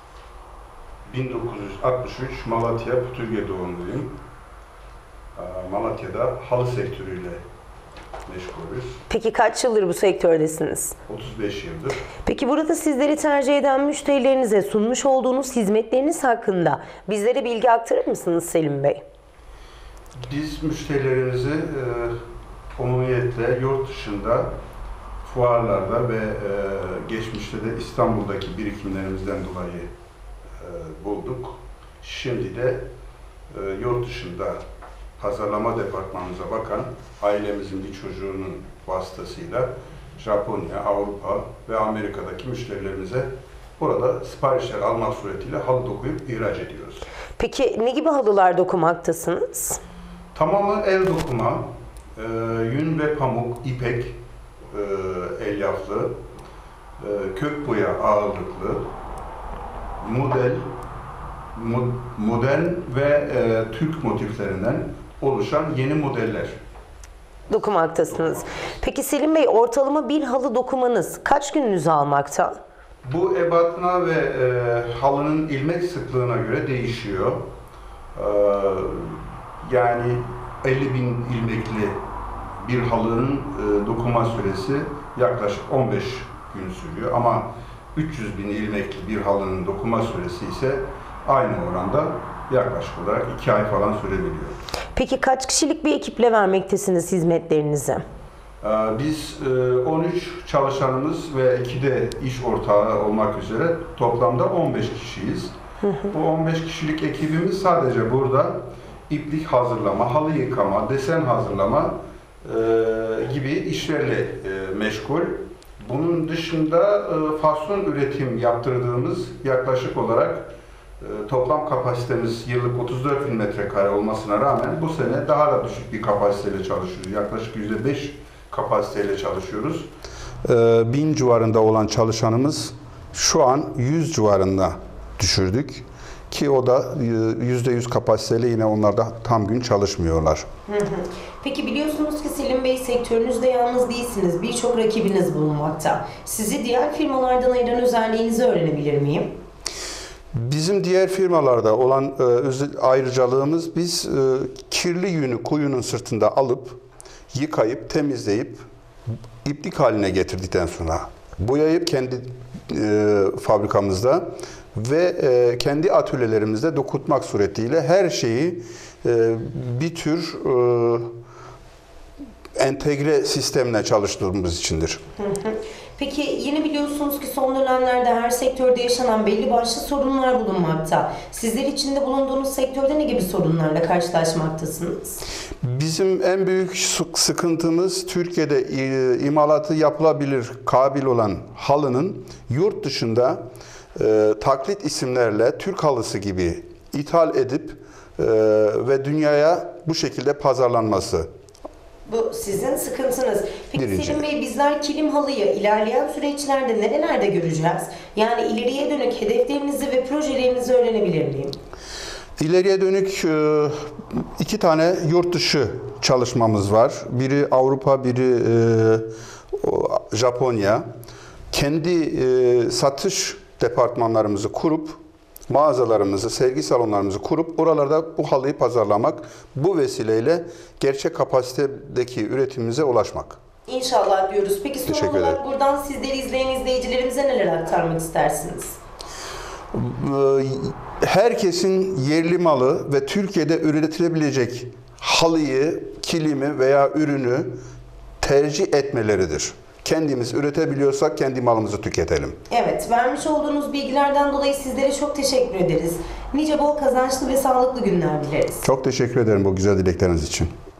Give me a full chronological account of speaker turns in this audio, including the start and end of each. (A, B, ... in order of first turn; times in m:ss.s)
0:01.0-0:04.2 A
0:05.4-0:07.4 A
0:08.2-0:09.0 A
0:09.1-0:11.0 B
0:11.1-0:12.0 A
0:12.2-0:19.0 B
0:20.2-0:22.1 A
0:22.8-0:24.5 A
0:25.2-0:29.9 A
0:30.6-0:32.8 A
0:33.5-0:34.6 A
0:35.2-0:47.0 A
0:47.4-0:49.8 B
0:50.3-0:51.6 A
0:52.2-0:54.2 A
0:54.7-0:56.1 A
0:57.0-0:58.8 A
1:00.0-1:00.6 A
1:01.5-1:06.5 A
1:07.5-1:12.6 B
1:08.1-1:08.4 A
1:13.0-1:17.4 A
1:18.2-1:22.0 A
1:22.6-1:34.6 A
1:34.9-1:38.0 B
1:38.6-1:45.5 A
1:45.8-1:46.1 B
1:46.1-2:09.9 A
2:10.4-2:20.4 A
2:20.7-2:29.3 B
2:30.3-2:36.8 A
2:37.3-2:38.6 A
2:39.4-2:51.1 A
2:52.6-2:55.0 A
2:55.2-3:05.2 B
3:05.6-3:13.4 A
3:14.0-3:21.3 A
3:22.1-3:31.6 B
3:23.7-3:24.2 A
3:32.4-3:40.8 A
3:41.5-3:45.0 A
3:45.5-3:53.4 A
3:53.6-3:58.8 B
3:54.8-3:55.4 A
3:59.7-4:07.6 A
4:08.2-4:12.4 A
4:12.5-4:18.6 B
4:18.6-4:20.5 A